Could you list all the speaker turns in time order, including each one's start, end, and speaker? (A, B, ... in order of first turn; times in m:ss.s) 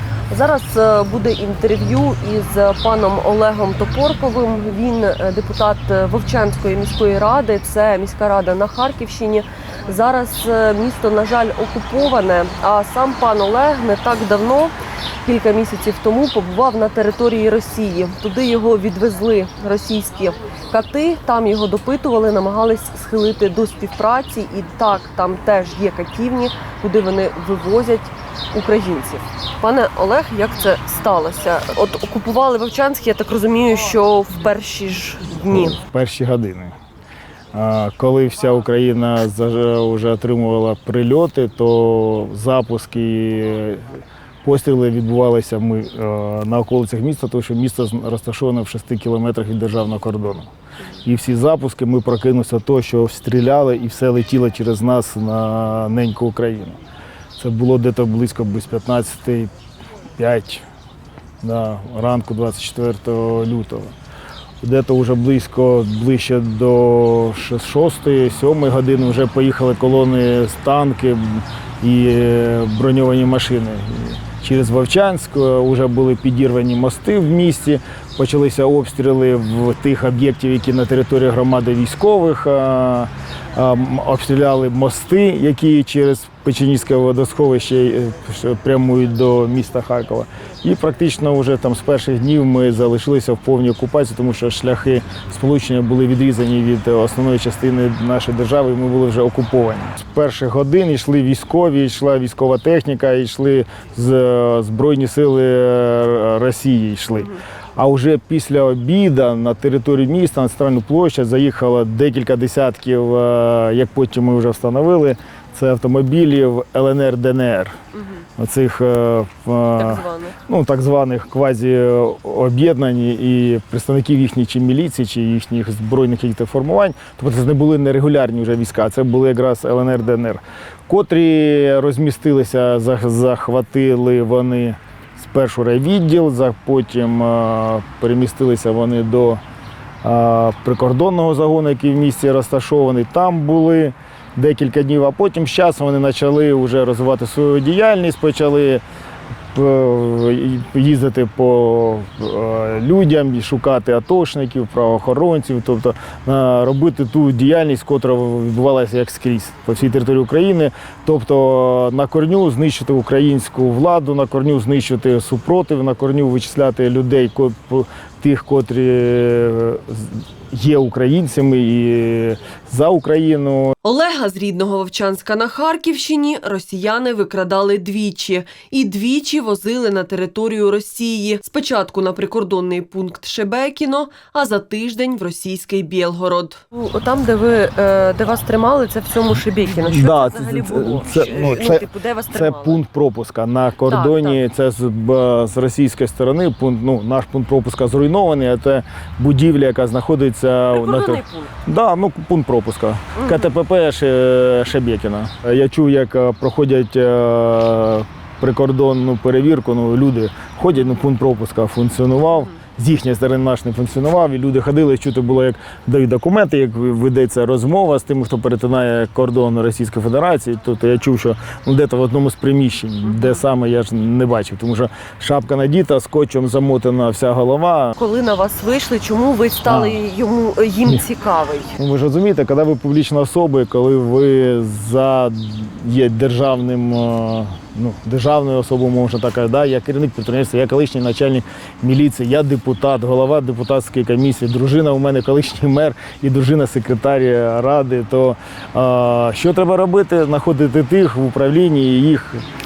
0:00.3-0:14.7 A
0:15.2-0:35.8 A
0:35.5-0:36.7 B
0:37.5-0:50.5 B
0:51.0-0:56.8 B
0:57.4-0:59.5 B
1:00.2-1:00.6 B
1:01.4-1:03.9 B
1:04.6-1:57.8 B
1:57.9-1:58.2 A
1:58.4-2:19.4 B
1:59.8-2:00.4 A
2:20.0-2:28.8 B
2:29.5-2:53.8 B
2:53.8-3:12.8 A
3:09.8-3:47.9 B
3:13.8-3:14.4 A
3:20.7-3:21.5 A
3:23.2-3:23.5 A
3:43.1-3:43.4 A
3:47.9-3:51.8 A
3:49.7-3:50.0 B
3:51.8-4:12.4 B